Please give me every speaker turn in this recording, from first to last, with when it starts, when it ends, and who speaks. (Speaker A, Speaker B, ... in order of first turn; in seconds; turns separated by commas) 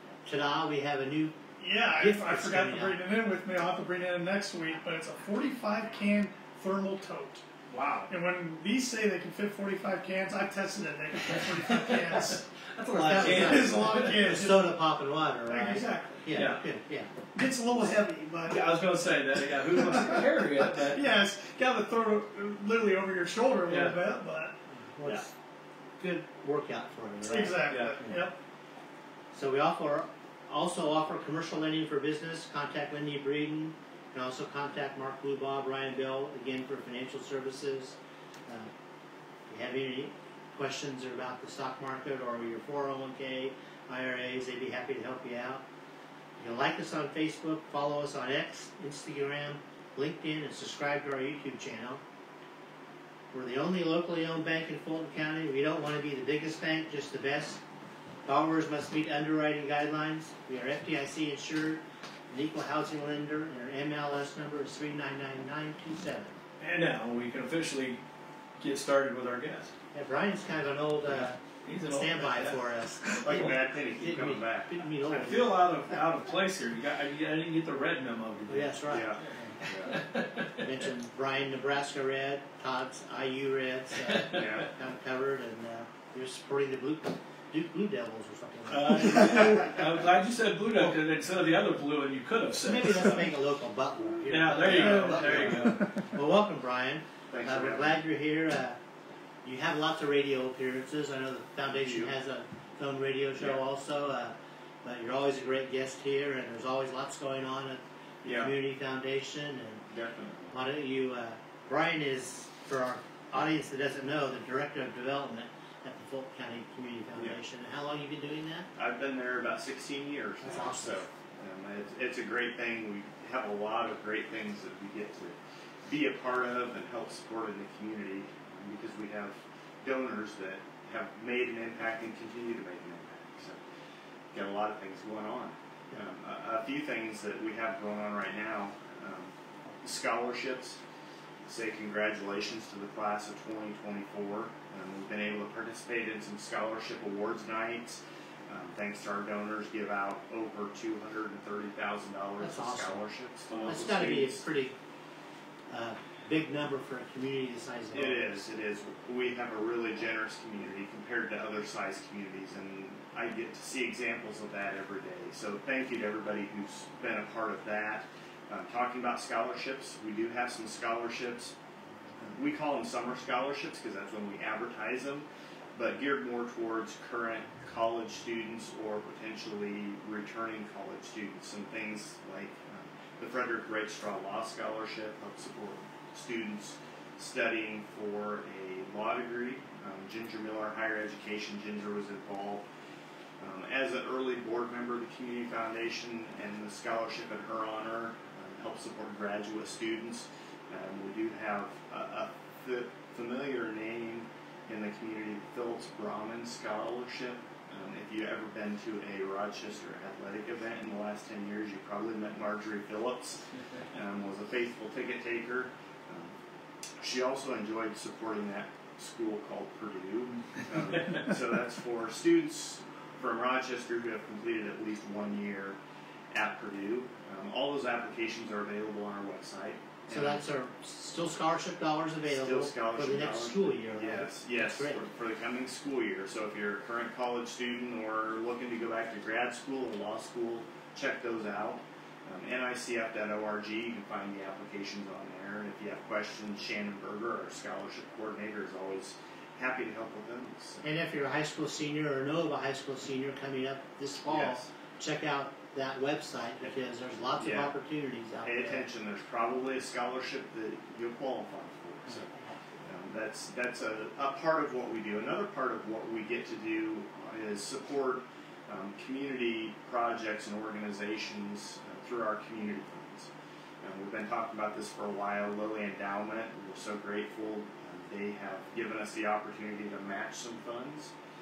Speaker A: 0.2-1.4, Speaker B: 1.6-7.4, Speaker A: 1.9-3.0, Speaker C: 7.7-8.1, Speaker B: 8.1-12.4, Speaker C: 11.3-14.5, Speaker A: 12.9-17.1, Speaker B: 13.1-14.8, Speaker B: 15.5-16.5, Speaker C: 16.3-16.6, Speaker B: 17.3-18.6, Speaker C: 18.5-21.0, Speaker B: 19.6-24.6, Speaker C: 23.7-24.0, Speaker A: 24.7-25.3, Speaker A: 26.0-28.3, Speaker B: 27.2-28.3, Speaker C: 27.6-28.0, Speaker A: 29.3-38.0, Speaker A: 39.5-45.6, Speaker A: 46.4-52.0, Speaker A: 53.3-57.6, Speaker A: 58.2-66.3, Speaker C: 66.6-68.0, Speaker C: 68.6-69.7, Speaker A: 69.9-75.5, Speaker C: 71.1-73.5, Speaker D: 73.2-75.3, Speaker C: 75.1-78.8, Speaker A: 78.5-79.6, Speaker D: 78.9-80.0, Speaker C: 79.6-80.6, Speaker A: 80.6-89.6, Speaker C: 84.0-84.6, Speaker D: 84.3-84.7, Speaker C: 88.7-93.3, Speaker A: 92.6-98.8, Speaker C: 94.3-95.9, Speaker D: 94.6-95.0, Speaker D: 97.3-98.0, Speaker A: 99.4-109.8, Speaker D: 101.7-102.1, Speaker D: 108.2-108.5, Speaker D: 109.9-110.5, Speaker A: 110.5-118.7, Speaker D: 118.8-133.6, Speaker A: 120.4-121.0, Speaker D: 134.3-140.8, Speaker D: 141.4-154.4, Speaker A: 152.4-153.0, Speaker C: 153.5-153.8, Speaker A: 153.6-154.7, Speaker A: 155.7-158.4, Speaker D: 157.9-171.5, Speaker D: 172.2-192.6, Speaker D: 193.4-216.3, Speaker D: 217.0-225.8, Speaker D: 226.3-230.4, Speaker A: 230.1-235.0, Speaker D: 232.3-250.8, Speaker A: 250.8-258.8, Speaker D: 254.2-254.7, Speaker D: 257.4-257.7, Speaker D: 258.4-273.3, Speaker D: 273.8-281.1